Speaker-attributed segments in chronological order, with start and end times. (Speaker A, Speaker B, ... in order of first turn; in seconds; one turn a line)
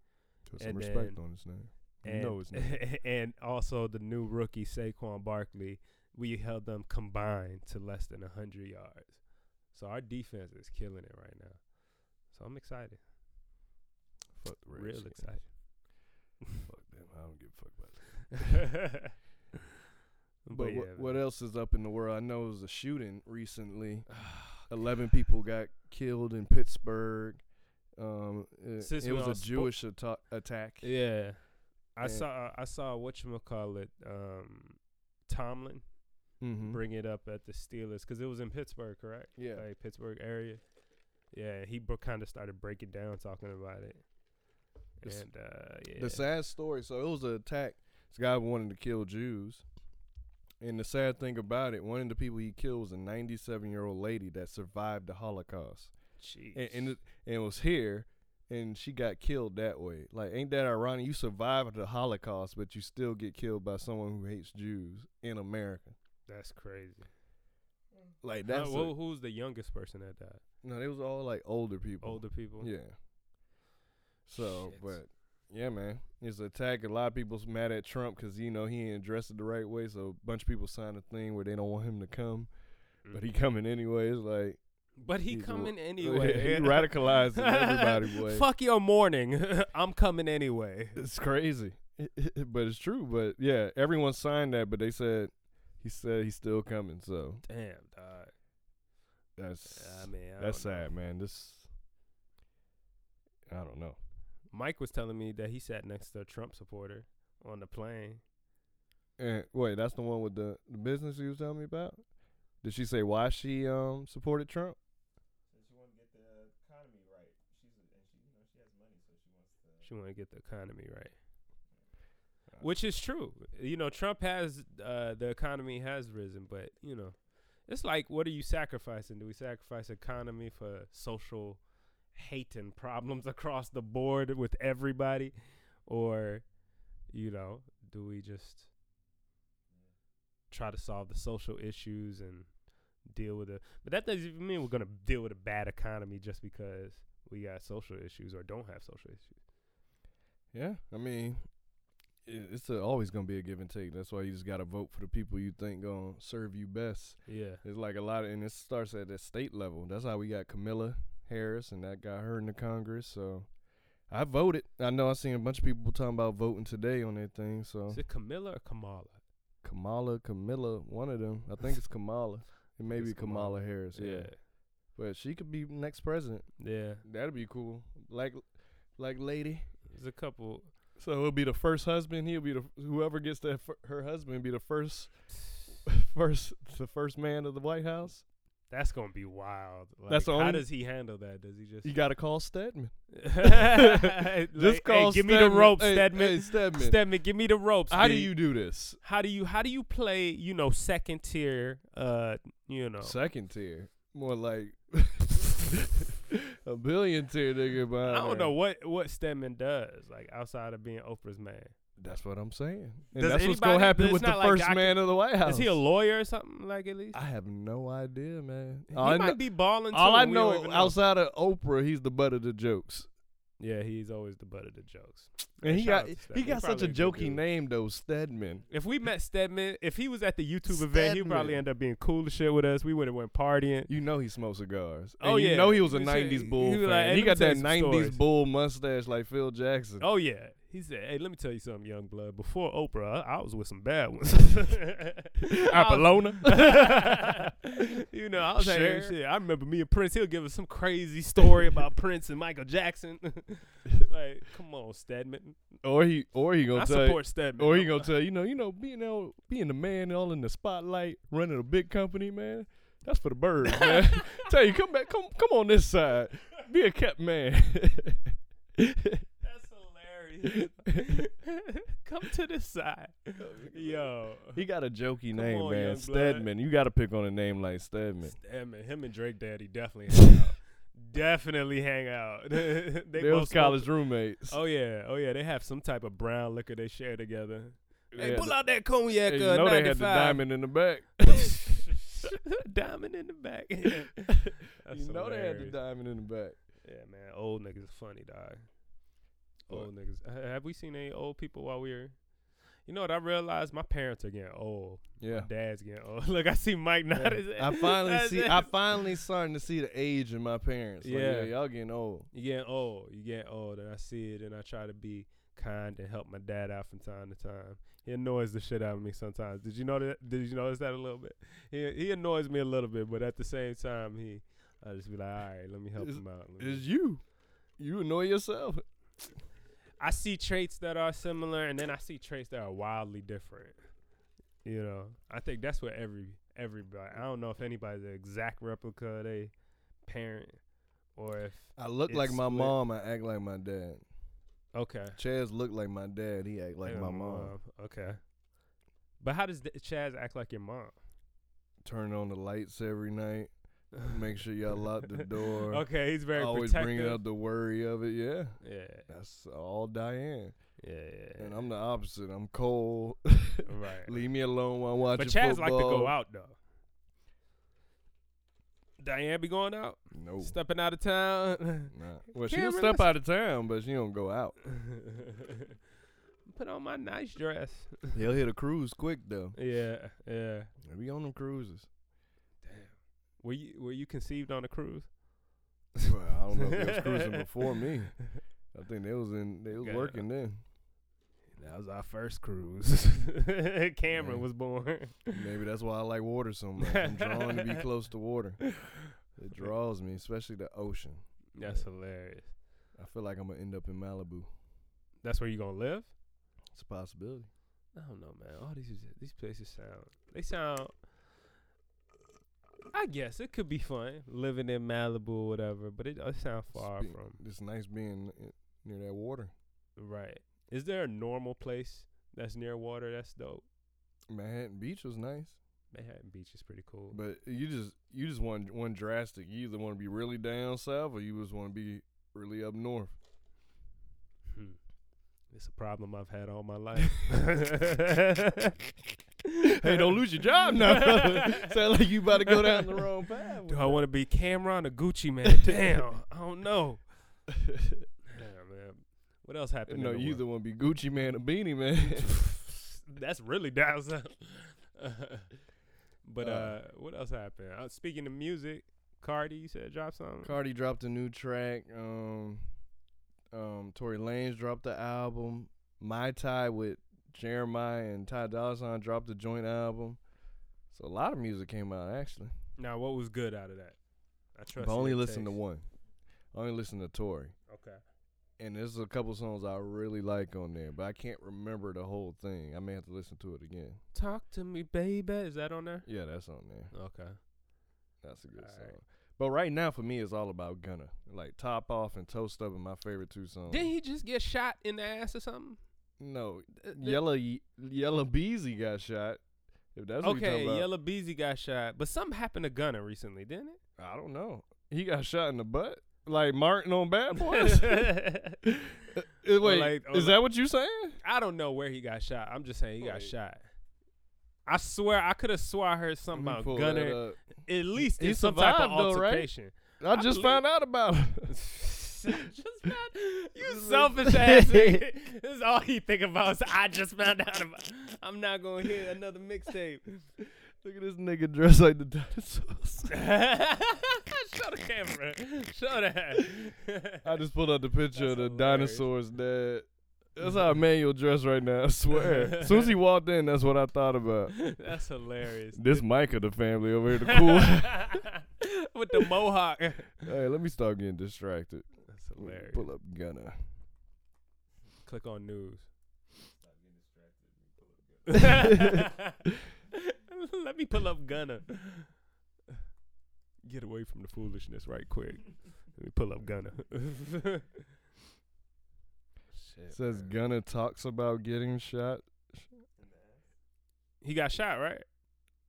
Speaker A: 0.5-13.0
Speaker B: 0.5-2.8
Speaker B: 14.4-15.5
Speaker A: 14.7-15.8
Speaker B: 16.6-18.8
Speaker A: 18.4-19.1
Speaker A: 20.4-21.2
Speaker B: 20.5-27.4
Speaker A: 24.1-24.7
Speaker B: 28.0-30.9
Speaker A: 28.8-29.8
Speaker A: 30.8-35.9
Speaker B: 32.0-32.3
Speaker B: 36.4-36.8
Speaker A: 36.6-40.6
Speaker B: 39.4-39.6
Speaker A: 41.3-44.0
Speaker A: 45.0-46.3
Speaker B: 45.0-45.3
Speaker B: 45.9-49.6
Speaker B: 50.6-55.9
Speaker A: 56.2-56.9
Speaker B: 56.5-66.0
Speaker A: 66.3-67.1
Speaker B: 68.2-68.9
Speaker A: 68.5-70.4
Speaker B: 70.6-73.0
Speaker A: 72.0-72.7
Speaker B: 74.3-82.5
Speaker A: 74.4-75.0
Speaker B: 83.1-84.6
Speaker A: 85.0-91.0
Speaker B: 85.3-88.5
Speaker B: 91.0-97.4
Speaker A: 97.5-98.3
Speaker B: 99.4-101.7
Speaker A: 99.7-100.9
Speaker B: 103.5-104.0
Speaker A: 104.5-108.2
Speaker B: 109.2-112.0
Speaker B: 112.6-114.8
Speaker C: 115.5-119.9
Speaker A: 119.8-121.1
Speaker A: 122.6-135.3
Speaker A: 135.9-136.5
Speaker A: 137.1-138.7
Speaker A: 140.5-149.4
Speaker B: 150.5-151.4
Speaker B: 152.3-163.5
Speaker A: 157.3-157.6
Speaker B: 164.1-168.0
Speaker A: 167.9-169.2
Speaker B: 169.6-179.7
Speaker A: 172.9-174.4
Speaker A: 176.6-177.0
Speaker A: 179.9-180.7
Speaker B: 181.0-188.2
Speaker A: 188.7-191.9
Speaker B: 190.1-190.7
Speaker B: 191.8-197.0
Speaker A: 193.1-198.4
Speaker B: 197.9-199.0
Speaker A: 199.0-203.2
Speaker B: 203.0-208.5
Speaker A: 208.0-211.8
Speaker B: 212.0-215.8
Speaker A: 213.2-217.2
Speaker B: 217.1-223.1
Speaker A: 218.9-221.0
Speaker A: 223.6-227.4
Speaker B: 225.6-228.7
Speaker A: 228.7-233.9
Speaker B: 230.7-231.6
Speaker B: 233.9-240.1
Speaker A: 235.2-238.2
Speaker A: 240.0-255.6
Speaker B: 245.6-247.3
Speaker B: 248.5-249.2
Speaker B: 255.8-269.2
Speaker A: 256.7-258.1
Speaker A: 263.8-264.5
Speaker A: 269.4-274.6
Speaker B: 270.4-271.0
Speaker B: 273.4-278.4
Speaker A: 275.3-276.5
Speaker A: 278.2-283.9
Speaker B: 283.2-284.6
Speaker A: 284.5-290.5
Speaker B: 288.1-291.8
Speaker A: 291.3-295.8
Speaker B: 294.5-296.6
Speaker A: 296.8-298.7
Speaker A: 299.7-302.2
Speaker A: 302.9-309.0
Speaker B: 305.2-305.5
Speaker B: 307.1-312.3
Speaker A: 311.0-311.5
Speaker A: 312.3-326.8
Speaker B: 326.0-327.2
Speaker B: 327.8-328.8
Speaker A: 330.0-333.8
Speaker A: 334.6-339.5
Speaker A: 340.0-340.6
Speaker A: 341.1-342.8
Speaker B: 341.8-344.0
Speaker A: 344.7-345.2
Speaker B: 345.2-347.5
Speaker A: 346.9-348.2
Speaker A: 349.2-351.0
Speaker B: 351.8-360.6
Speaker A: 355.1-357.2
Speaker A: 358.6-359.1
Speaker A: 360.8-361.6
Speaker B: 361.4-366.1
Speaker A: 363.7-364.1
Speaker A: 365.2-366.6
Speaker A: 369.0-373.1
Speaker B: 370.1-370.5
Speaker B: 371.9-374.6
Speaker A: 374.8-375.5
Speaker A: 376.5-378.1
Speaker B: 378.1-379.6
Speaker A: 379.6-380.7
Speaker B: 380.8-381.9
Speaker A: 382.6-385.2
Speaker B: 386.0-390.6
Speaker A: 386.6-387.5
Speaker A: 389.8-390.3
Speaker A: 391.6-395.3
Speaker B: 394.1-394.5
Speaker B: 395.3-401.9
Speaker A: 396.8-397.8
Speaker A: 401.6-402.5
Speaker B: 402.9-404.5
Speaker A: 405.2-406.1
Speaker B: 406.7-407.5
Speaker A: 407.9-411.0
Speaker A: 412.9-417.4
Speaker B: 416.7-419.5
Speaker A: 420.0-423.6
Speaker B: 424.3-425.6
Speaker A: 425.9-427.2
Speaker B: 427.1-433.1
Speaker A: 435.5-438.7
Speaker B: 439.6-444.0
Speaker A: 439.7-441.7
Speaker A: 442.5-443.0
Speaker A: 443.7-447.1
Speaker B: 447.6-448.1
Speaker A: 448.3-450.4
Speaker B: 449.9-452.4
Speaker A: 452.2-455.5
Speaker A: 456.2-460.6
Speaker B: 456.4-456.8
Speaker B: 460.4-462.6
Speaker B: 463.5-470.2
Speaker B: 470.9-472.5
Speaker A: 472.8-474.0
Speaker A: 474.6-475.6
Speaker B: 474.8-475.9
Speaker B: 476.5-477.5
Speaker A: 477.7-478.0
Speaker B: 478.6-484.0
Speaker A: 484.1-486.1
Speaker B: 486.1-486.9
Speaker A: 486.9-487.4
Speaker B: 488.2-493.9
Speaker A: 488.6-488.9
Speaker A: 493.7-495.8
Speaker B: 496.2-499.4
Speaker A: 496.8-497.2
Speaker B: 499.9-500.9
Speaker A: 500.2-503.8
Speaker B: 504.0-511.2
Speaker A: 507.4-508.6
Speaker A: 509.6-510.4
Speaker A: 511.2-513.6
Speaker B: 513.0-513.3
Speaker A: 514.7-520.6
Speaker B: 516.3-517.4
Speaker B: 518.0-519.5
Speaker B: 520.0-521.5
Speaker A: 521.5-530.3
Speaker B: 523.6-525.0
Speaker B: 530.8-533.2
Speaker A: 533.1-537.2
Speaker B: 537.2-544.7
Speaker A: 538.1-539.1
Speaker A: 542.2-542.9
Speaker A: 544.6-546.1
Speaker B: 545.7-548.2
Speaker A: 547.2-550.3
Speaker B: 550.2-553.6
Speaker A: 552.1-552.9
Speaker A: 555.0-555.9
Speaker C: 556.4-559.1
Speaker A: 558.3-559.4
Speaker A: 560.0-562.1
Speaker A: 563.7-567.7
Speaker A: 569.6-570.3
Speaker B: 569.9-572.7
Speaker C: 573.0-573.4
Speaker A: 574.2-575.0